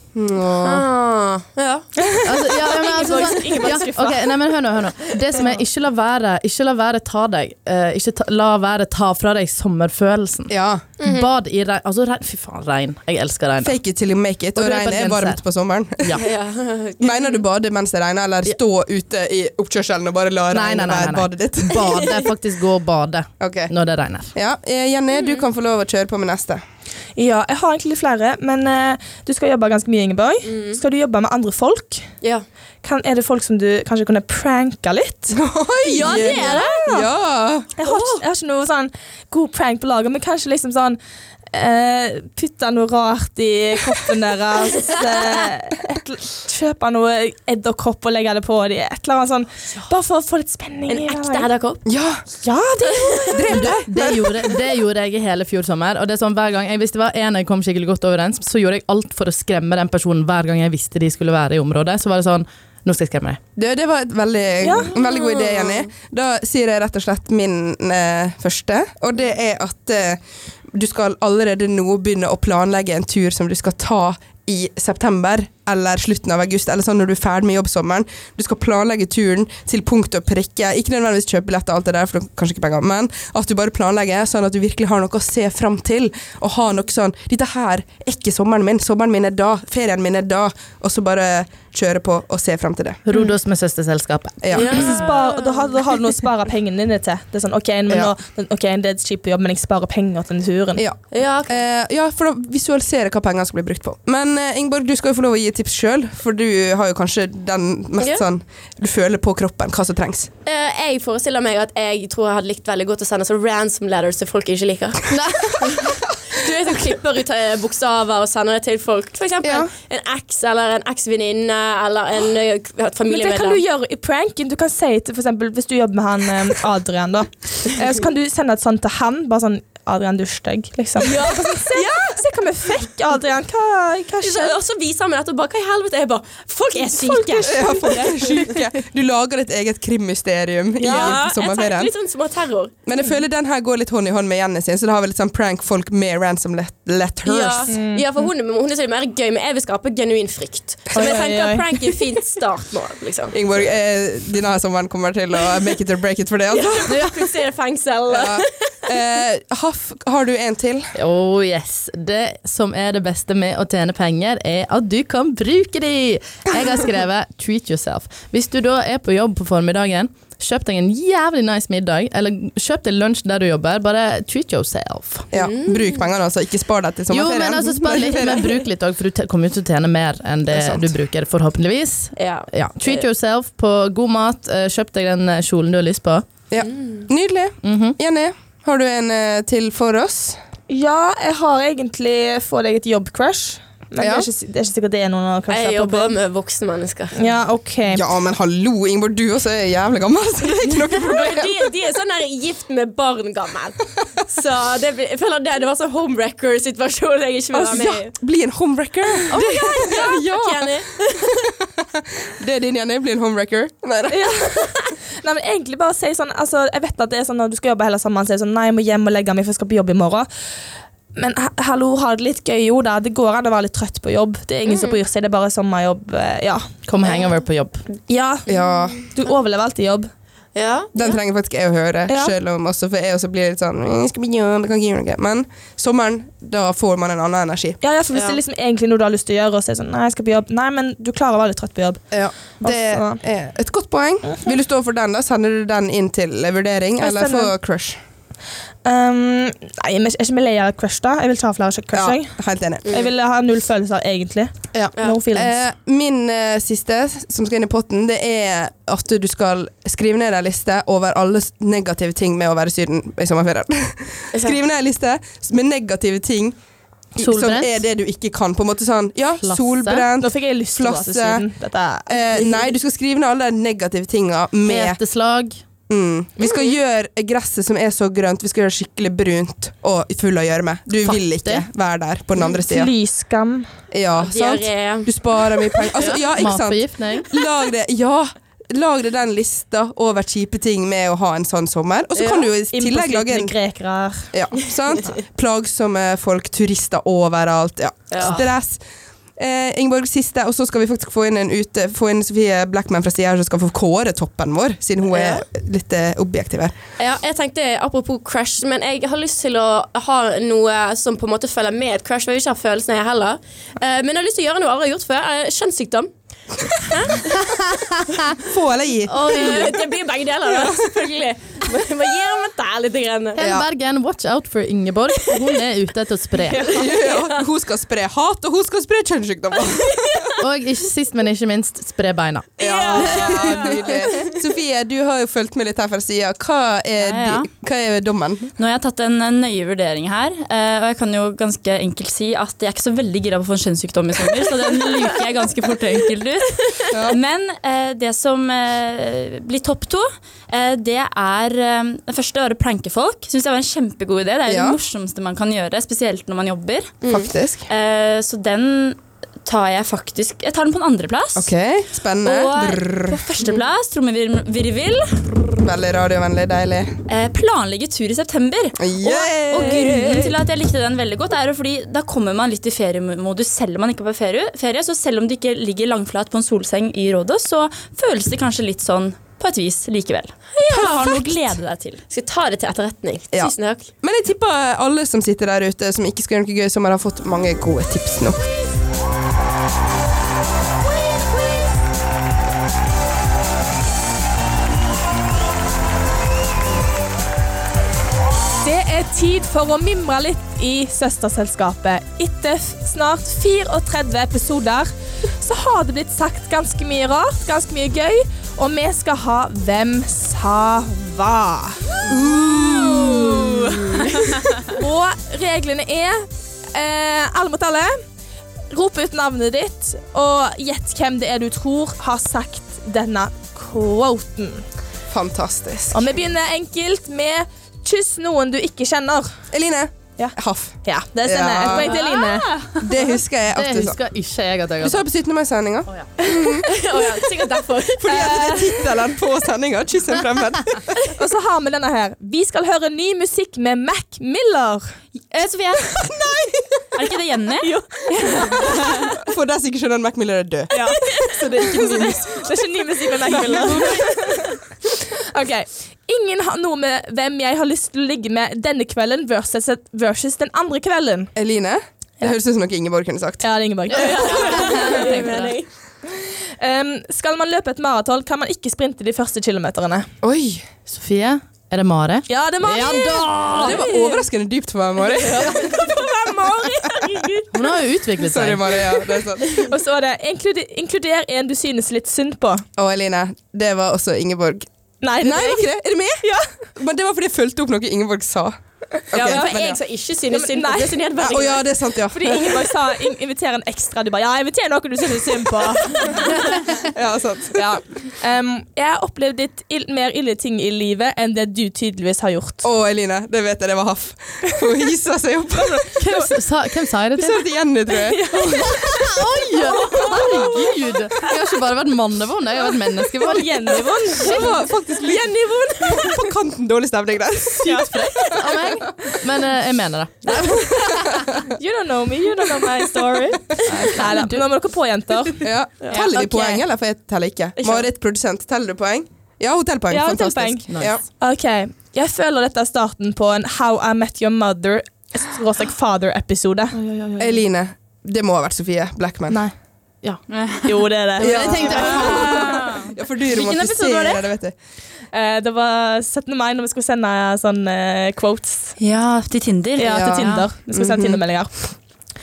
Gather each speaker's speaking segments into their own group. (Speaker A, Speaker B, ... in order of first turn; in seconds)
Speaker A: 0.1-0.9, 10.5-10.9, 13.6-16.2, 17.0-22.0, 23.4-23.7, 24.3-26.6, 35.3-37.7, 51.9-52.2, 53.3-54.5, 63.5-70.2, 70.7-93.0, 94.4-95.1, 100.8-110.3, 137.4-141.9, 142.8-147.8, 150.9-151.2, 153.3-157.2, 158.1-160.9, 175.3-178.5, 180.5-180.9, 186.5-190.4, 194.0-194.3, 197.9-201.7, 207.6-210.8, 211.5-214.6, 228.5-229.0, 230.9-237.8, 242.1-248.0, 251.9-252.9, 254.7-266.6, 267.1-271.4, 272.1-275.0, 275.9-282.9, 283.9-293.5, 294.3-298.8, 299.4-306.8, 318.4-319.8, 323.4-323.6, 326.6-330.3, 332.6-338.5, 346.9-347.2, 354.5-354.8, 357.1-357.7, 361.4-363.2, 365.6-366.9, 368.8-370.3, 383.3-388.4, 412.1-413.7, 425.1-426.1, 429.5-430.7, 431.2-431.9, 432.8-433.9, 434.8-436.8, 438.0-440.8, 446.0-446.5, 449.2-452.5, 453.3-454.1, 461.4-463.4, 470.2-470.6, 473.6-475.9, 478.2-479.6, 482.8-484.7, 485.2-486.2, 486.8-488.6, 489.1-489.8, 491.2-492.6, 496.8-497.8, 502.6-506.0, 507.1-508.3, 514.2-519.1, 521.1-521.4, 525.4-531.0, 537.2-539.4, 541.2-544.5, 549.9-551.2
Speaker B: 0.6-1.8, 11.0-11.3, 16.1-17.4, 25.1-25.4, 30.4-30.8, 36.0-36.7, 38.0-38.2, 44.8-45.1, 50.9-51.8, 64.9-65.8, 94.5-95.7, 101.1-101.6, 108.0-108.2, 110.4-123.6, 131.0-132.2, 134.2-138.6, 140.8-142.7, 147.2-153.3, 156.5-158.9, 175.3-176.0, 182.2-183.0, 186.6-187.1, 195.5-197.2, 200.6-203.8, 204.3-208.1, 209.3-211.5, 224.7-225.0, 230.5-231.2, 238.1-238.4, 254.9-255.2, 264.3-264.6, 276.4-276.7, 284.2-286.1, 292.2-292.4, 298.1-298.5, 305.1-305.4, 307.0-316.1, 316.7-317.6, 319.2-323.4, 326.5-327.4, 329.9-330.3, 332.6-334.3, 357.0-357.3, 380.6-381.4, 382.1-383.9, 436.6-438.3, 463.9-465.7, 473.7-474.2, 475.1-477.4, 489.1-491.7, 515.0-516.3, 525.8-526.1, 527.6-527.9
Speaker C: 2.0-4.4, 27.1-32.1, 32.8-35.4, 35.9-37.1, 37.8-41.0, 41.5-51.5, 52.4-53.6, 64.6-64.9, 94.6-100.8, 123.1-134.6, 136.8-137.3, 140.8-141.2, 147.7-148.1, 150.9-151.9, 190.7-196.2, 197.1-198.1, 207.5-207.9, 214.1-220.3, 221.1-226.6, 228.1-228.5, 229.1-230.1, 232.1-232.3, 237.8-243.2, 244.3-244.5, 247.0-247.5, 248.8-252.4, 252.9-255.6, 270.2-272.5, 282.4-283.7, 292.7-294.3, 333.2-333.6, 398.6-411.9, 414.6-418.0, 418.7-424.6, 425.9-429.3, 430.2-432.5, 438.1-439.0, 441.0-444.9, 447.6-448.9, 450.7-454.4, 455.3-461.3, 463.4-465.3, 466.6-470.1, 472.3-473.8, 479.6-482.6, 485.0-486.5, 489.2-489.5, 490.3-491.1, 492.1-496.7, 497.5-502.6, 505.6-506.0, 507.9-510.6, 513.2-514.5, 517.6-518.0, 521.5-526.6, 529.9-536.8, 540.6-542.1, 545.1-548.8, 549.8-551.7
Speaker D: 2.2-13.8, 14.5-15.4, 20.5-24.3, 53.5-63.4, 93.0-94.8, 160.9-175.2, 177.1-186.3, 187.6-187.9, 226.9-227.8, 267.2-267.8, 269.4-270.1, 274.6-275.6, 281.0-281.7, 286.0-287.3, 319.1-319.8, 323.4-326.8, 330.4-333.0, 433.5-435.1, 470.9-473.7, 477.5-478.8, 506.0-507.4, 508.4-514.5, 517.6-521.3, 523.6-524.4, 530.7-531.0, 536.7-537.4, 539.3-540.2, 541.2-542.7
Speaker E: 337.0-337.5, 338.6-357.0, 357.7-361.5, 362.2-365.3, 367.1-382.0, 431.7-432.7, 445.3-446.0, 446.9-447.7, 464.2-465.6, 540.3-540.7, 541.7-544.2, 548.8-550.5